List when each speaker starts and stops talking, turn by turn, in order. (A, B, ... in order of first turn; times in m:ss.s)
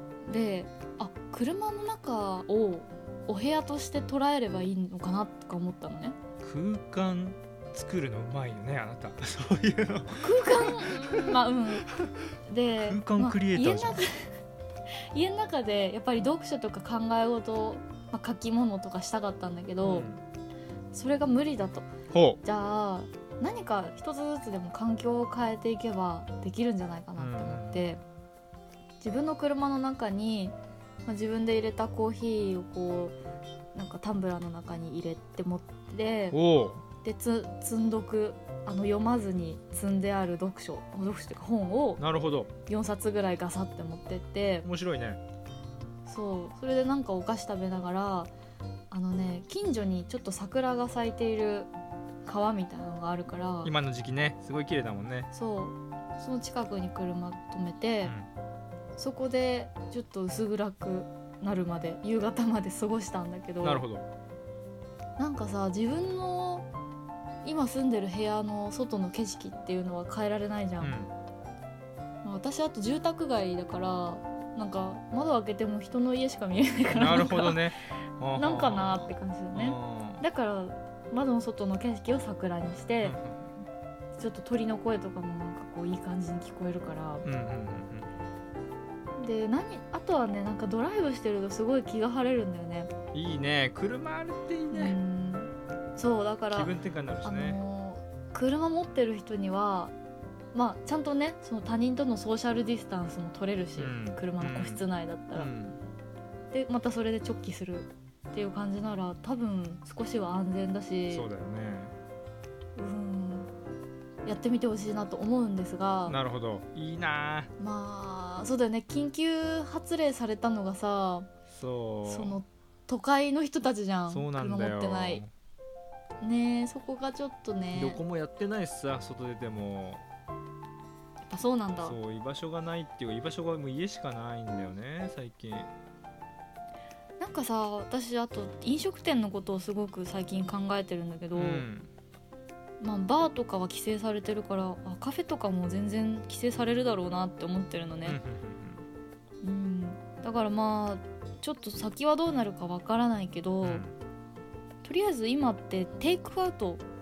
0:00.2-0:06.2 A
0:06.4-0:14.1 B
0:10.1-0:11.9 A
0:12.4-0:14.3 A
0:15.1-0:20.1 A
0:19.8-0:20.2 B
0:20.9-0:21.9 A
0:22.1-0:22.4 B
0:22.4-0:28.0 A
0:27.2-0:27.8 B
0:29.0-0:33.2 A
0:33.7-0:36.4 A
0:36.3-0:36.8 B
0:37.0-0:42.0 A
0:42.0-0:42.5 B
0:42.7-0:44.6 A
0:44.6-0:45.2 B
0:46.0-0:48.3 A
0:48.9-0:51.7 A
0:52.2-0:53.7 A
0:53.6-0:55.3 B
0:55.3-0:58.1 A
0:58.0-0:58.3 B
0:59.0-1:03.8 A
1:03.6-1:04.0 B
1:05.2-1:06.7 A
1:07.4-1:11.0 A
1:10.8-1:11.1 B
1:12.2-1:17.6 A
1:16.9-1:20.2 B
1:18.4-1:23.2 A
1:23.0-1:23.5 B
1:24.2-1:27.2 A
1:27.2-1:28.1 B
1:29.2-1:32.9 A
1:33.1-1:35.0 B
1:34.7-1:36.7 A
1:36.5-1:37.6 B
1:37.2-1:39.9 A
1:40.5-1:45.5 A
1:43.8-1:44.8 B
1:45.3-1:45.8 B
1:46.5-1:51.2 A
1:51.1-1:51.9 B
1:52.8-1:53.5 A
1:54.2-1:56.2 A
1:56.0-1:57.5 B
1:57.6-2:01.3 A
2:01.5-2:02.4 B
2:02.0-2:05.2 A
2:04.1-2:05.3 B
2:06.2-2:08.0 A
2:07.7-2:10.0 B
2:11.3-2:12.0 A
2:11.8-2:15.7 B
2:17.2-2:21.7 A
2:21.3-2:21.9 B
2:22.8-2:28.2 A
2:28.0-2:28.8 B
2:29.4-2:33.8 A
2:33.6-2:33.9 B
2:34.8-2:36.8 A